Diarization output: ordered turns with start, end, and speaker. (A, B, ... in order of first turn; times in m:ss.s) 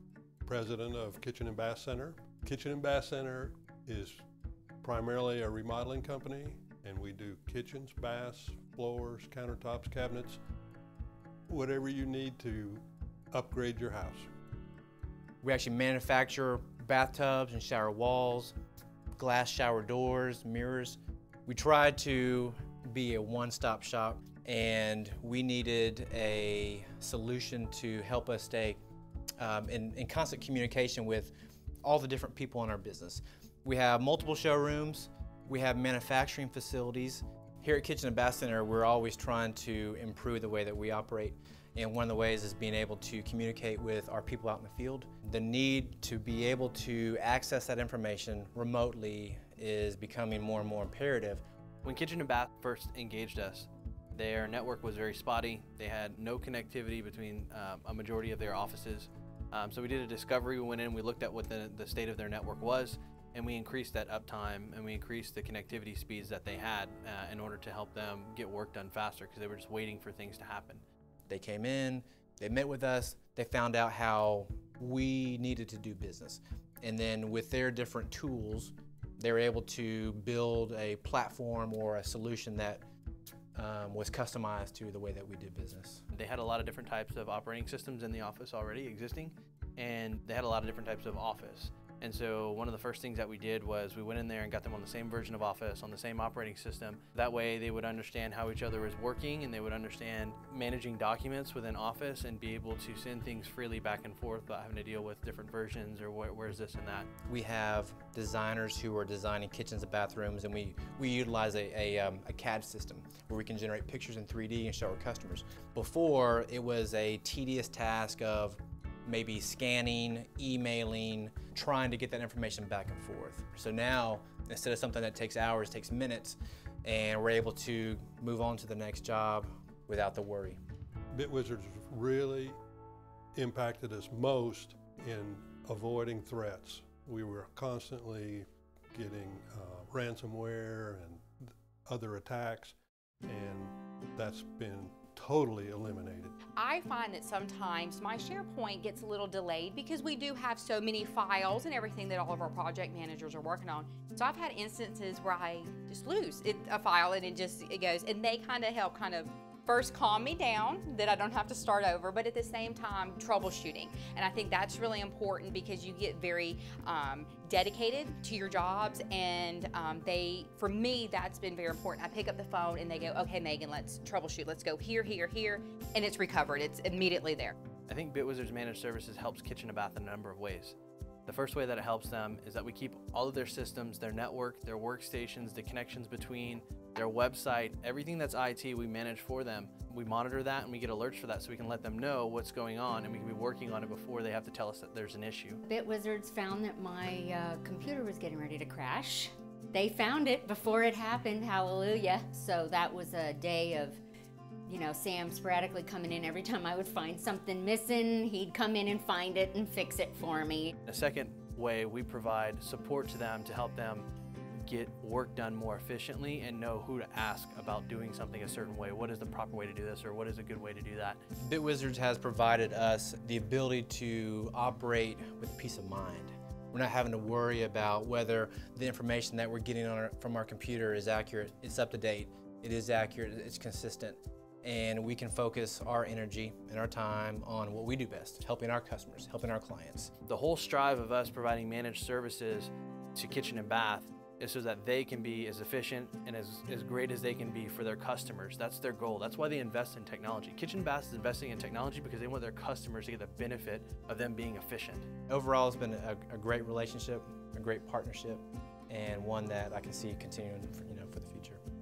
0:00.4-0:04.2 A
0:04.8-0:10.4 A
0:11.5-0:14.3 A
0:15.4-0:18.6 B
0:19.2-0:28.8 B
0:29.4-0:51.4 B
0:51.8-1:10.8 C
1:11.3-1:22.8 B
1:23.6-1:26.0 B
1:26.1-1:47.1 C
1:47.3-2:10.6 B
2:11.1-2:12.6 A
2:13.3-2:26.4 A
2:26.5-2:57.6 D
2:57.9-3:15.6 C
3:15.7-3:24.0 E
3:24.7-3:30.7 E
3:30.9-3:41.2 C
3:41.5-4:00.1 B
4:00.3-4:15.1 C
4:15.3-4:21.6 B